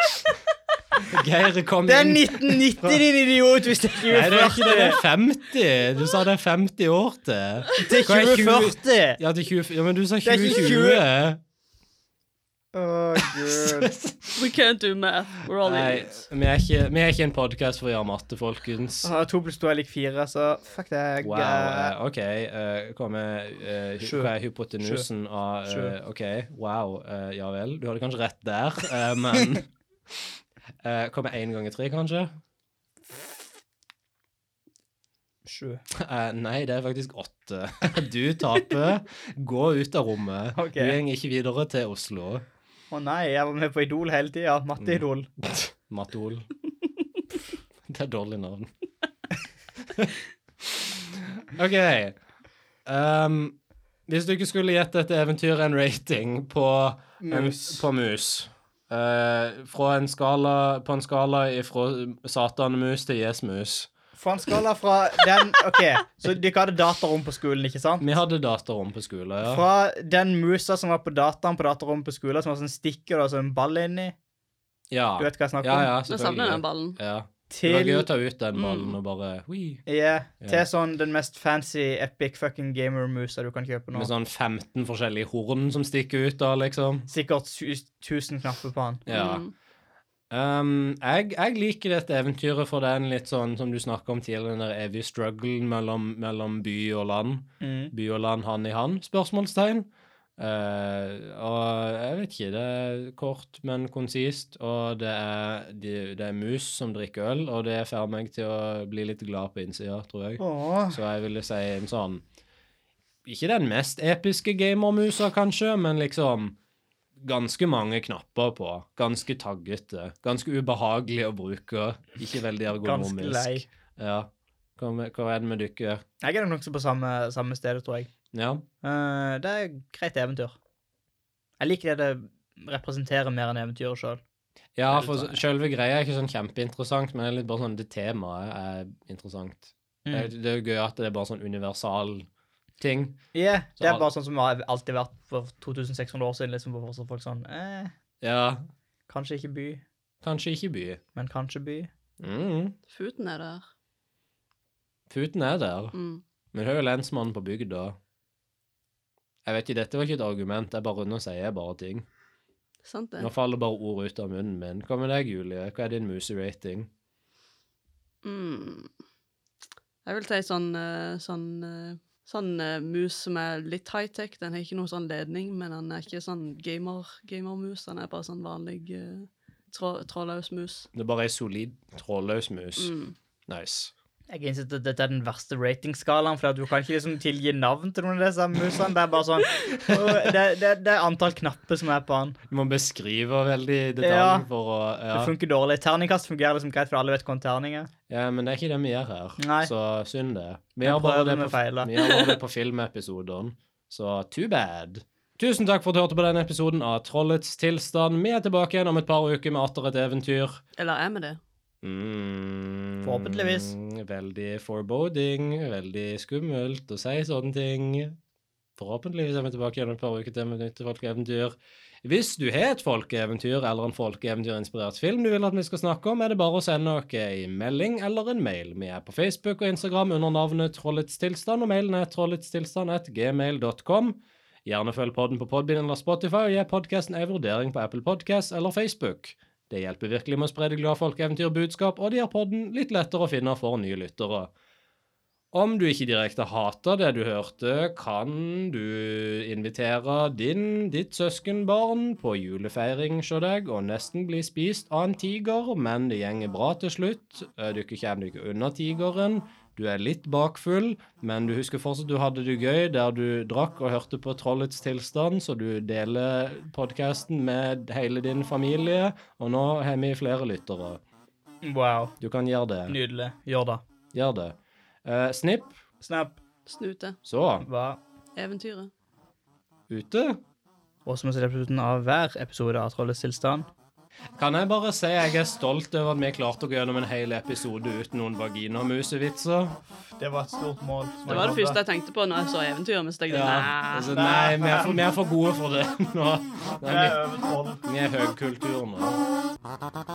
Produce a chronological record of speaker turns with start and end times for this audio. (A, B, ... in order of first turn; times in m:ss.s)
0:01.0-0:03.0 A
0:01.9-0:05.0 B
0:04.0-0:11.4 A
0:07.8-0:09.2 B
0:10.2-0:11.0 B
0:12.7-0:13.9 B
0:13.2-0:14.5 A
0:14.4-0:16.3 C
0:15.6-0:19.1 A
0:19.0-0:21.9 B
0:21.2-0:30.3 A
0:24.0-0:25.1 B
0:25.6-0:26.0 B
0:30.8-0:32.3 A
0:35.5-0:35.8 B
0:35.9-0:42.4 A
0:40.6-0:41.0 B
0:42.9-0:45.3 B
0:44.8-0:46.5 A
0:47.8-0:48.7 A
0:49.9-0:52.2 A
0:52.9-0:53.6 A
0:54.1-1:03.9 A
0:57.2-0:57.8 B
1:04.2-1:08.1 B
1:08.0-1:09.6 A
1:09.4-1:14.2 B
1:14.9-1:19.8 A
1:15.2-1:15.9 B
1:16.1-1:17.0 C
1:17.5-1:18.1 B
1:18.6-1:19.0 C
1:19.9-1:24.1 B
1:23.9-1:27.1 A
1:27.1-1:29.0 B
1:29.1-1:29.4 A
1:29.1-1:29.5 C
1:30.3-1:52.2 A
1:37.6-1:37.9 B
1:50.4-1:51.0 B
1:53.2-1:56.6 A
1:57.2-2:06.0 A
2:02.8-2:03.7 B
2:06.2-2:08.1 B
2:08.3-2:08.6 A
2:08.8-2:10.6 B
2:11.6-2:14.2 B
2:14.8-2:22.3 A
2:14.9-2:15.4 B
2:20.1-2:20.3 B
2:22.8-2:23.3 A
2:23.3-2:27.9 B
2:23.8-2:24.1 A
2:28.2-2:28.6 A
2:29.1-2:29.8 B
2:30.2-2:31.0 A
2:31.2-2:31.9 B
2:32.2-2:32.8 A
2:32.9-2:33.6 C
2:35.1-2:36.0 A
2:35.9-2:36.2 C
2:36.5-2:38.0 A
2:39.4-2:42.1 A
2:42.8-2:43.3 C
2:43.2-2:46.9 A
2:48.2-2:48.9 C
2:50.0-3:00.9 C
3:00.9-3:02.9 A
3:02.8-3:03.1 C
3:03.5-3:03.9 A
3:04.3-3:12.4 B
3:09.8-3:10.3 A
3:12.5-3:15.3 A
3:14.0-3:14.5 B
3:15.1-3:17.9 B
3:18.1-3:30.6 A
3:19.4-3:19.7 B
3:20.8-3:22.2 B
3:30.8-3:31.4 C
3:31.8-3:38.2 A
3:33.0-3:33.7 B
3:38.8-4:04.5 A
4:05.5-4:31.0 A
4:31.6-4:32.2 B
4:32.2-4:33.0 A
4:32.9-4:33.8 B
4:34.1-4:35.8 A
4:36.0-4:36.4 B
4:36.7-4:37.2 C
4:37.2-4:37.7 A
4:37.6-4:38.0 B
4:38.4-4:38.9 C
4:39.9-4:40.4 A
4:41.1-4:43.7 B
4:44.4-4:49.8 A
4:50.2-4:51.8 B
4:51.3-4:54.1 C
4:53.3-4:57.2 A
4:54.1-4:55.0 B
4:56.8-4:57.8 B
4:57.8-4:59.2 A